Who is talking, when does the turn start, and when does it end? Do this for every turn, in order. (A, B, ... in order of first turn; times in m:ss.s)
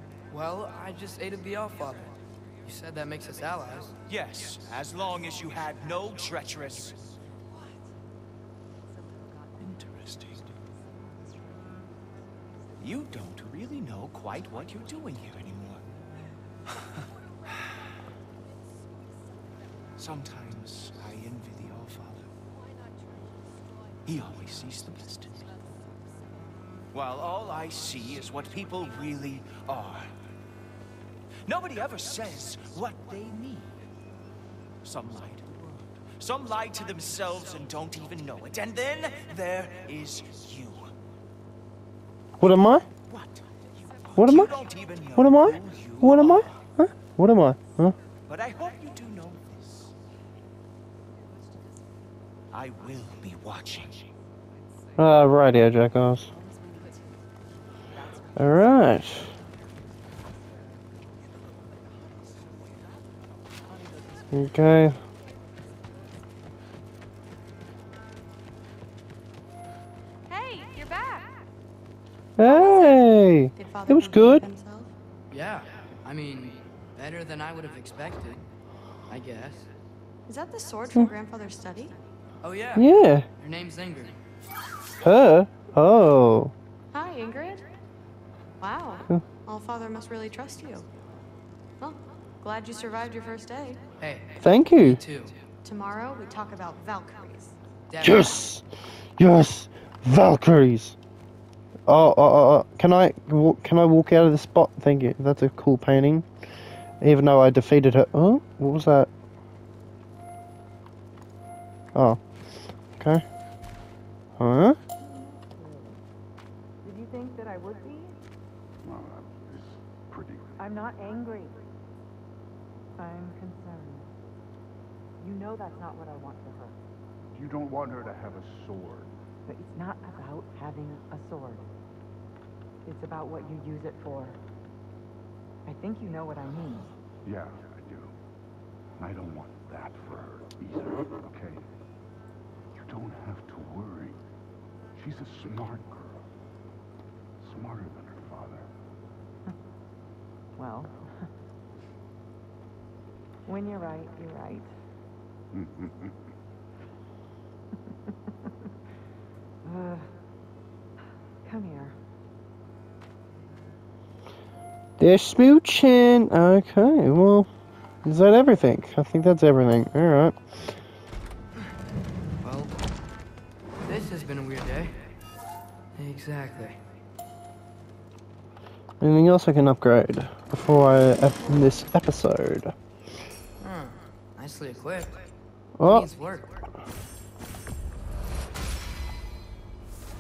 0:00.3-0:04.0 A
0:04.1-0:07.1 B
0:09.6-0:10.6 B
0:12.8-0:15.8 B
0:20.0-0:22.3 B
0:24.1-0:25.5 B
0:26.9-0:30.1 B
0:31.4-0:33.7 B
0:34.8-0:40.9 B
0:42.4-0:42.9 C
0:43.0-0:46.6 B
0:44.2-0:44.6 C
0:45.2-0:48.0 C
0:48.3-0:49.9 B
0:52.5-0:54.0 B
0:55.0-0:56.3 C
0:58.4-0:59.3 C
1:04.3-1:05.0 C
1:10.3-1:11.4 D
1:12.4-1:14.5 C
1:12.4-1:13.0 D
1:13.6-1:14.9 D
1:15.3-1:18.4 A
1:19.1-1:19.7 A
1:20.3-1:22.0 D
1:22.4-1:24.2 A
1:22.8-1:23.3 C
1:25.0-1:26.5 C
1:26.9-1:27.7 D
1:28.6-1:30.9 D
1:31.8-1:33.8 D
1:34.0-1:35.4 A
1:34.4-1:35.0 C
1:35.6-1:37.6 D
1:37.9-1:38.5 A
1:38.0-1:38.6 C
1:39.2-1:41.0 C
1:41.9-1:46.3 C
1:47.0-1:49.1 C
1:51.9-1:52.2 C
1:53.0-1:53.2 C
1:54.4-1:54.8 C
1:55.4-1:56.0 E
1:56.8-1:58.2 E
1:58.8-2:00.6 F
2:00.6-2:01.6 E
2:03.0-2:04.1 E
2:05.2-2:06.8 E
2:07.3-2:09.1 F
2:09.5-2:11.7 E
2:12.8-2:14.4 E
2:15.7-2:16.9 E
2:17.2-2:18.1 F
2:19.0-2:21.6 F
2:22.8-2:24.2 F
2:25.0-2:26.2 F
2:27.4-2:28.7 F
2:30.6-2:31.1 E
2:33.5-2:34.7 E
2:35.5-2:36.1 F
2:39.6-2:40.1 E
2:41.4-2:41.9 E
2:45.0-2:47.5 C
2:48.0-2:50.4 C
2:52.4-2:52.8 A
2:53.8-2:55.0 A
2:56.0-2:56.8 A
2:59.0-3:02.7 C
3:03.6-3:05.2 A
3:05.8-3:06.1 C
3:05.8-3:06.6 A